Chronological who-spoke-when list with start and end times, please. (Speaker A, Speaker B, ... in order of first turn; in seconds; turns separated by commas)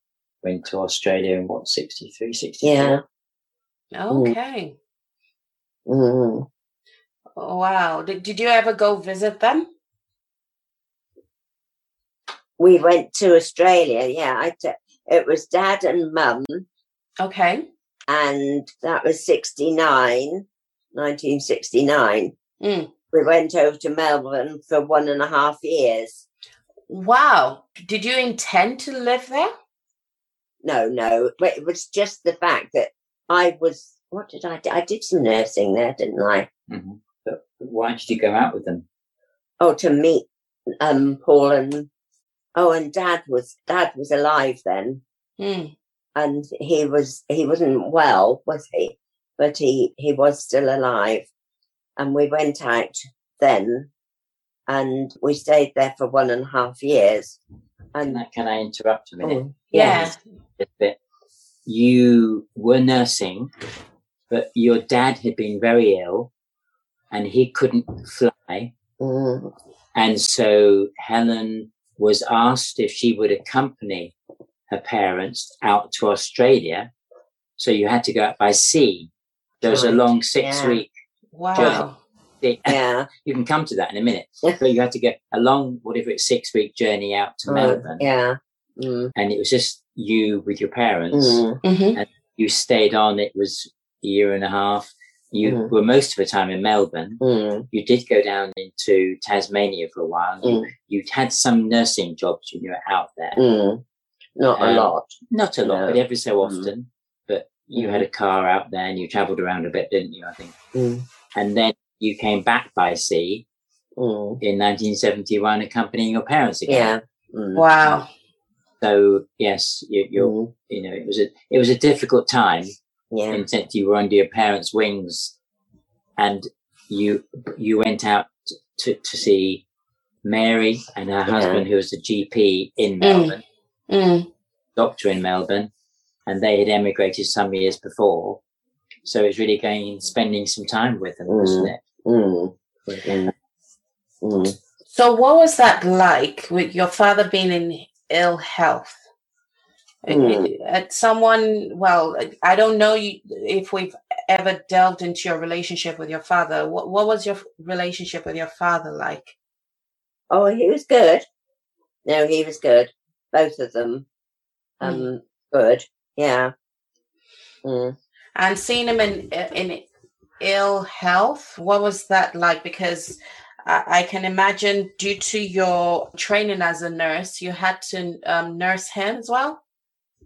Speaker A: 0.4-3.0, Speaker B: 2.6-3.0, Speaker C: 3.9-4.8, Speaker B: 4.1-4.3, Speaker B: 5.9-6.5, Speaker C: 7.4-9.7, Speaker B: 12.6-16.6, Speaker C: 17.2-17.7, Speaker B: 18.1-22.3, Speaker C: 22.6-22.9, Speaker B: 23.1-26.2, Speaker C: 26.9-29.5, Speaker B: 30.6-36.5, Speaker A: 36.7-38.9, Speaker B: 39.6-40.2, Speaker B: 40.8-41.9, Speaker B: 42.6-45.0, Speaker C: 45.4-45.7, Speaker B: 46.2-51.3, Speaker B: 52.0-53.9, Speaker B: 54.7-57.4, Speaker B: 57.9-58.2, Speaker A: 58.1-61.0, Speaker B: 59.2-60.1, Speaker C: 59.7-60.2, Speaker A: 61.7-63.5, Speaker A: 64.3-66.3, Speaker A: 67.1-68.7, Speaker B: 69.0-69.5, Speaker A: 69.9-74.1, Speaker A: 74.7-76.9, Speaker A: 77.6-79.1, Speaker A: 79.6-80.9, Speaker B: 79.6-80.8, Speaker C: 81.3-82.0, Speaker B: 81.5-81.8, Speaker A: 81.5-81.8, Speaker A: 82.4-88.0, Speaker B: 82.7-83.1, Speaker B: 87.5-89.1, Speaker A: 89.2-91.4, Speaker B: 91.1-91.6, Speaker C: 91.6-92.0, Speaker A: 92.0-103.4, Speaker B: 95.4-95.7, Speaker B: 97.2-97.7, Speaker B: 100.4-100.7, Speaker B: 103.3-103.8, Speaker B: 104.4-105.1, Speaker A: 104.6-110.5, Speaker B: 105.6-106.7, Speaker B: 107.8-108.0, Speaker B: 110.7-111.0, Speaker A: 111.3-113.5, Speaker B: 114.0-114.4, Speaker A: 114.4-116.9, Speaker B: 116.7-117.7, Speaker C: 117.5-118.1, Speaker A: 118.8-122.7, Speaker B: 120.1-120.5, Speaker B: 123.1-123.4, Speaker A: 123.3-125.4, Speaker A: 126.2-129.6, Speaker A: 130.2-133.4, Speaker B: 131.3-131.6, Speaker C: 133.0-133.4, Speaker C: 133.9-134.3, Speaker A: 134.8-135.7, Speaker A: 136.3-138.4, Speaker A: 139.0-141.8, Speaker B: 141.3-143.3, Speaker B: 144.2-144.6, Speaker C: 144.9-149.0, Speaker C: 150.1-159.3, Speaker B: 150.1-150.5, Speaker B: 160.3-161.2, Speaker B: 162.1-164.1, Speaker B: 164.8-166.5, Speaker C: 164.8-165.1, Speaker B: 167.6-168.0, Speaker C: 168.4-169.9, Speaker C: 170.4-179.6